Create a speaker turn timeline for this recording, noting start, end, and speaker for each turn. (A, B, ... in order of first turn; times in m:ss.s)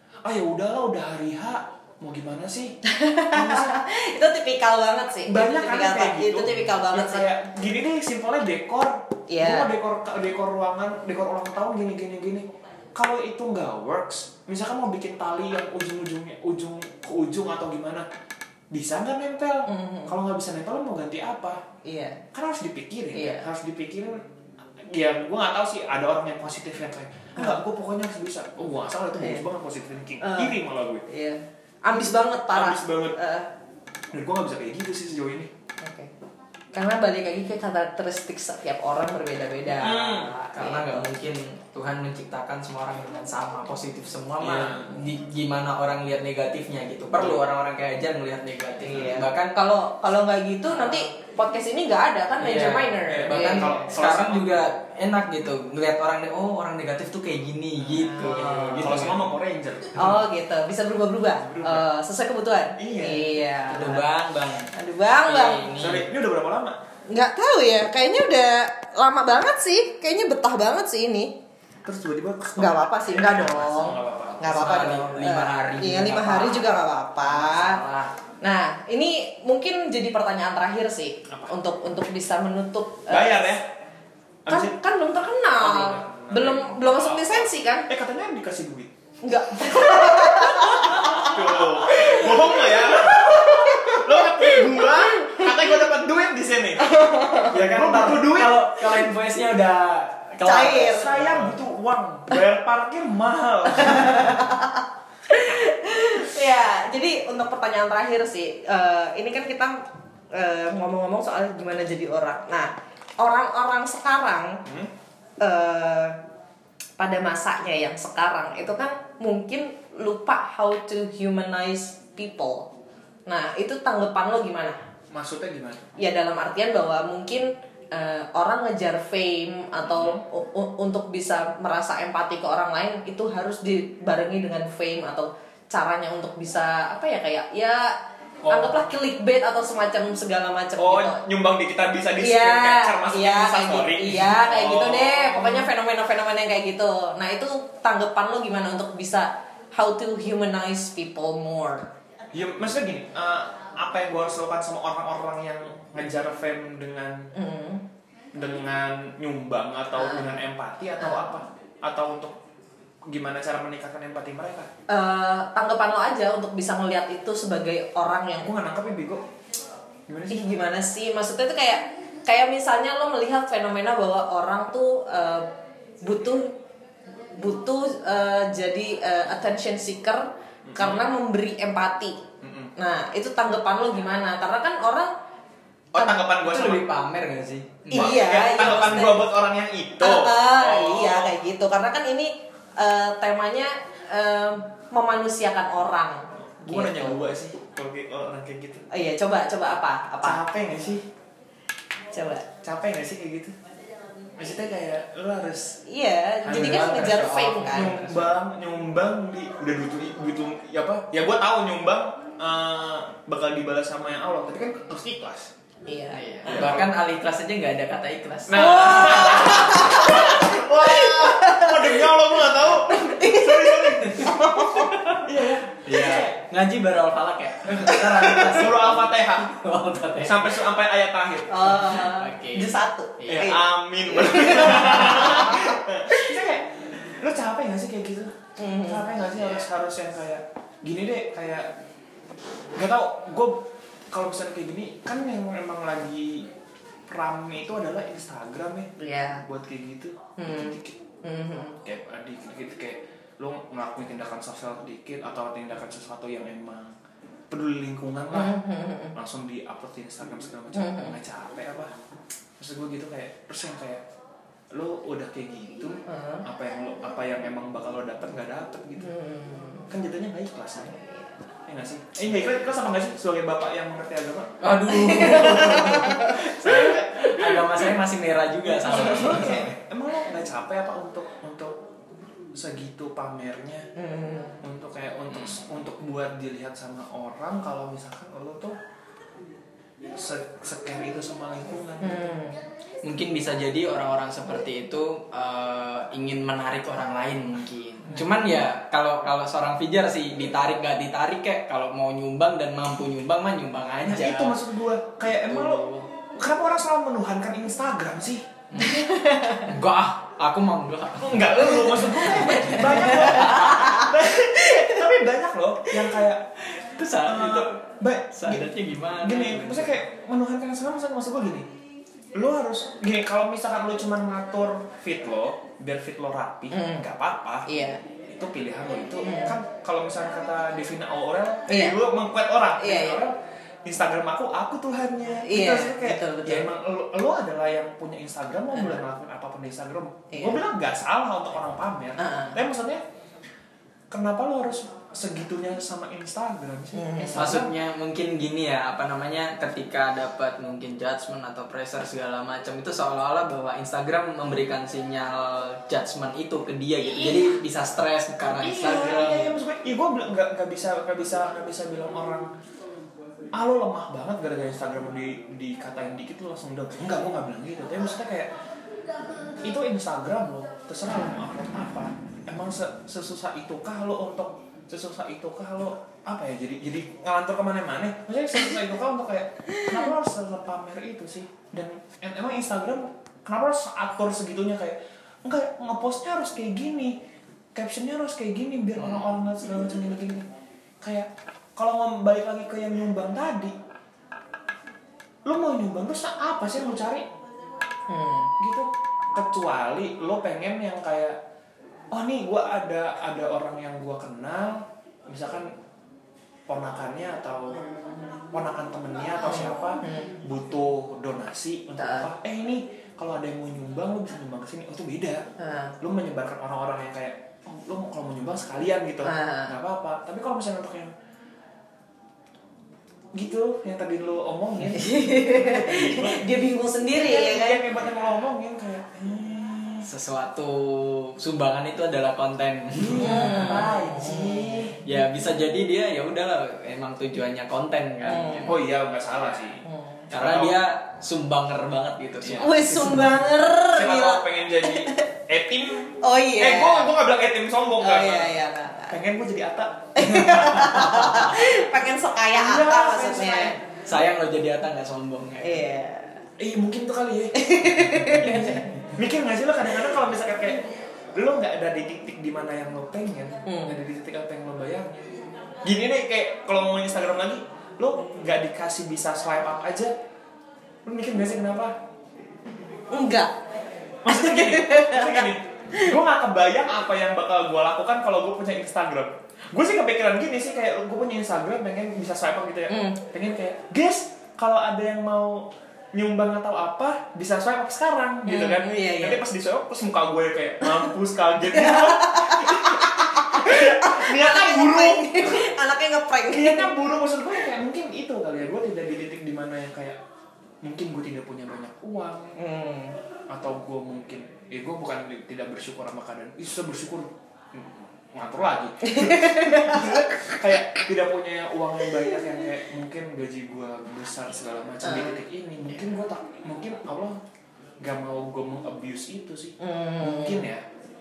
0:00.2-0:02.8 A
0:02.9-0:07.3 B
0:03.3-0:03.8 A
0:05.3-0:18.1 A
0:09.3-0:09.7 B
0:18.7-0:21.6 A
0:19.7-0:20.2 B
0:21.8-0:22.2 B
0:22.3-0:24.2 A
0:23.1-0:23.5 B
0:24.8-0:31.0 A
0:29.2-0:29.4 B
0:30.2-0:33.5 B
0:32.5-0:33.2 A
0:34.1-0:35.5 A
0:35.8-0:36.1 B
0:36.7-0:41.1 B
0:39.7-0:40.3 A
0:40.5-0:49.6 C
0:44.4-0:45.0 A
0:47.2-0:47.4 A
0:48.8-0:53.8 B
0:52.4-0:59.3 C
0:53.1-0:54.7 A
0:57.9-0:59.0 B
0:58.4-1:00.2 A
1:00.0-1:04.1 B
1:01.4-1:01.9 A
1:02.8-1:03.2 A
1:03.7-1:06.1 C
1:04.7-1:05.6 B
1:05.8-1:06.8 A
1:07.1-1:11.3 B
1:11.8-1:14.7 A
1:12.6-1:17.8 B
1:14.4-1:16.8 C
1:17.3-1:18.1 A
1:18.4-1:23.6 B
1:21.3-1:21.6 A
1:23.1-1:23.7 A
1:24.5-1:24.8 A
1:24.5-1:27.9 B
1:25.6-1:28.9 A
1:29.2-1:35.5 B
1:29.6-1:38.7 A
1:36.8-1:37.6 B
1:37.5-1:41.6 C
1:40.4-1:41.1 B
1:40.8-1:44.4 A
1:43.7-1:54.6 B
1:54.6-1:54.9 A
1:55.4-1:56.2 B
1:57.0-2:02.7 B
2:03.3-2:04.8 B
2:05.1-2:05.9 A
2:06.0-2:18.0 B
2:09.8-2:10.2 A
2:18.4-2:18.8 A
2:18.5-2:21.2 B
2:20.8-2:25.7 A
2:22.2-2:31.9 B
2:32.3-2:37.3 A
2:37.3-2:37.8 B
2:38.3-2:42.4 A
2:40.0-2:40.4 B
2:41.0-2:41.3 B
2:43.1-2:44.7 A
2:44.9-2:48.5 B
2:48.4-2:49.2 A
2:50.1-2:50.6 A
2:50.3-2:55.5 B
2:56.0-2:56.6 B
2:57.3-3:02.2 B
3:00.7-3:01.1 A
3:02.4-3:02.7 A
3:02.8-3:05.1 B
3:05.9-3:06.8 A
3:06.3-3:08.2 C
3:07.9-3:09.3 B
3:07.9-3:11.4 A
3:10.0-3:17.2 B
3:16.6-3:18.8 A
3:18.9-3:20.4 B
3:20.2-3:21.1 A
3:22.1-3:22.5 B
3:22.6-3:23.5 A
3:24.4-3:25.8 A
3:25.9-3:28.0 B
3:26.4-3:35.5 A
3:26.5-3:28.3 C
3:35.9-3:36.7 B
3:36.1-3:39.4 C
3:36.5-3:36.9 A
3:38.5-3:44.6 A
3:38.5-3:45.1 B
3:44.8-3:45.2 C
3:45.2-3:46.4 A
3:45.8-3:50.6 C
3:47.8-3:49.6 A
3:47.9-3:48.4 B
3:50.2-3:51.8 A
3:51.5-3:53.6 B
3:51.7-3:53.6 C
3:53.3-4:01.7 A
3:54.2-3:55.8 B
3:54.6-3:55.0 C
3:58.6-3:59.1 B
4:02.8-4:06.5 A
4:07.1-4:08.9 A
4:09.0-4:09.4 B
4:09.4-4:11.0 A
4:10.4-4:11.8 B
4:11.8-4:17.0 A
4:17.5-4:18.6 A
4:18.3-4:19.2 B
4:19.1-4:21.9 A
4:20.7-4:21.2 B
4:22.6-4:24.0 A
4:24.7-4:29.1 A
4:26.1-4:26.4 B
4:29.0-4:29.9 B
4:29.9-4:31.0 A
4:30.9-4:31.3 B
4:31.7-4:34.5 A
4:34.6-4:39.8 C
4:34.9-4:36.4 B
4:36.6-4:37.8 A
4:38.7-4:41.8 A
4:38.9-4:39.4 B
4:42.6-4:43.9 A
4:44.0-4:44.6 B
4:44.6-4:48.8 A
4:50.1-4:52.2 A
4:52.0-4:52.6 B
4:53.0-5:04.6 C
5:04.0-5:08.6 A
5:05.5-5:06.1 C
5:08.7-5:13.8 C
5:08.8-5:09.7 B
5:11.2-5:16.5 A
5:11.9-5:14.1 B
5:14.7-5:15.0 B
5:16.8-5:17.8 C
5:17.2-5:18.7 A
5:18.3-5:20.0 C
5:19.2-5:21.7 A
5:22.4-5:27.7 A
5:26.7-5:27.1 B
5:27.7-5:28.0 B
5:28.3-5:43.0 A
5:29.2-5:29.6 B
5:31.7-5:32.0 B
5:32.8-5:33.2 B
5:35.5-5:36.7 B
5:38.7-5:39.0 B
5:40.3-5:40.6 B
5:42.2-5:42.6 B
5:44.1-5:47.7 A
5:46.9-5:47.6 B
5:47.3-5:59.6 C
5:58.5-6:02.5 A
6:03.5-6:08.5 A
6:09.6-6:27.2 A
6:27.8-6:30.5 A
6:31.0-6:33.8 A
6:35.5-6:37.3 A
6:38.1-6:38.5 B
6:38.6-6:41.4 A
6:42.1-6:45.7 A
6:46.7-6:47.8 A
6:48.5-6:55.4 A
6:49.4-6:50.3 B
6:52.0-6:52.3 B
6:55.6-6:56.0 B
6:56.0-7:01.1 A
6:59.2-6:59.8 B
7:03.3-7:06.4 A
7:04.9-7:07.8 B
7:07.2-7:10.1 A
7:10.0-7:13.8 C
7:12.9-7:15.0 A
7:13.2-7:14.9 B
7:15.0-7:18.8 C
7:18.2-7:18.7 B
7:18.6-7:20.8 A
7:19.8-7:20.3 B
7:20.3-7:22.9 C
7:22.4-7:28.6 A
7:22.6-7:25.3 B
7:26.2-7:27.1 B
7:28.0-7:29.2 B
7:29.1-7:30.3 A
7:30.2-7:33.8 B
7:30.5-7:31.6 C
7:32.5-7:33.8 A
7:34.0-7:35.8 C
7:35.6-7:36.4 B
7:36.6-7:50.1 A
7:37.5-7:38.8 B
7:38.2-7:39.0 C
7:43.7-7:44.0 B
7:51.1-7:52.0 A
7:53.1-7:53.5 B
7:54.2-8:15.6 A
7:54.3-7:56.1 B
8:02.9-8:03.2 B
8:08.5-8:09.4 B
8:11.7-8:16.9 B
8:16.5-8:20.2 A
8:20.8-8:22.6 A
8:22.6-8:23.2 B
8:23.5-8:37.4 A
8:29.0-8:30.5 B
8:35.0-8:35.4 B
8:38.0-8:40.8 A
8:39.8-8:40.7 B